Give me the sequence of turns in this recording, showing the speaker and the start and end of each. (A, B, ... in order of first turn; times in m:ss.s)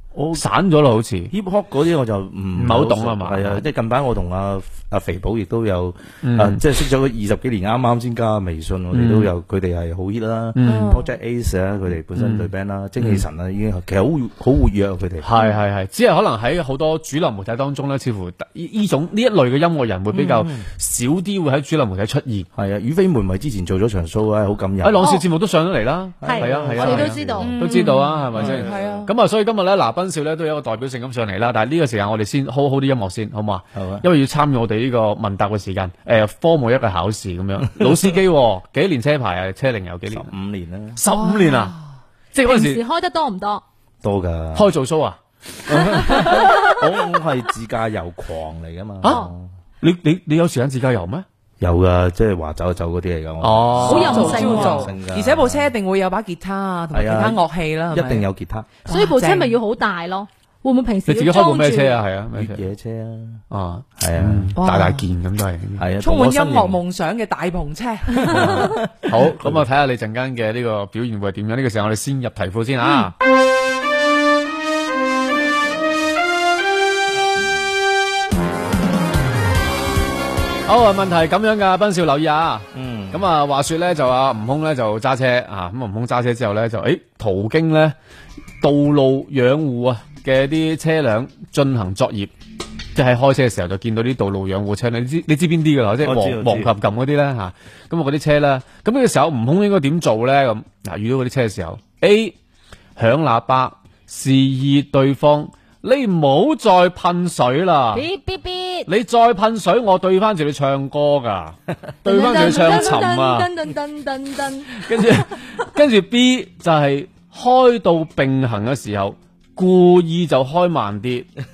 0:00.1-0:00.4 A
0:00.3-0:01.3 B
0:01.3-0:15.2 A
0:02.6-0:03.7 B
0:06.2-0:06.6 B
0:08.9-0:09.3 B
0:10.6-0:10.9 B
0:10.6-0:11.1 C
0:12.1-0:12.5 B
0:15.2-0:22.5 B
0:20.1-0:20.4 C
0:22.6-0:25.1 A
0:24.8-0:40.3 B
0:25.0-0:25.2 D
0:26.2-0:27.5 A
0:26.2-0:28.0 D
0:27.4-0:29.1 C
0:28.4-0:29.1 A
0:33.7-0:34.0 A
0:37.8-0:38.1 A
0:40.1-0:41.0 A
0:41.0-0:41.8 B
0:41.2-0:41.7 C
0:42.3-0:42.8 B
0:42.4-0:43.6 D
0:44.0-0:44.7 A
0:44.5-0:46.7 B
0:45.7-0:49.5 A
0:46.0-0:46.8 D
0:49.8-0:51.2 B
0:51.6-0:55.7 A
0:53.4-0:54.6 B
0:53.8-0:54.9 D
0:53.8-0:58.2 C
0:56.9-0:58.7 A
0:58.8-0:59.6 C
0:58.9-1:02.0 D
1:01.1-1:02.7 B
1:02.3-1:03.4 A
1:03.5-1:05.8 B
1:04.0-1:04.5 A
1:04.6-1:05.0 C
1:05.8-1:06.8 A
1:06.0-1:08.5 C
1:08.2-1:09.6 A
1:08.3-1:13.1 B
1:20.7-1:27.9 B
1:22.7-1:23.3 A
1:28.6-1:32.3 B
1:32.9-1:42.4 B
1:36.0-1:36.7 A
1:43.0-1:48.0 B
1:47.9-1:48.9 D
1:48.9-1:53.5 B
1:52.0-1:55.4 D
1:54.7-2:01.3 B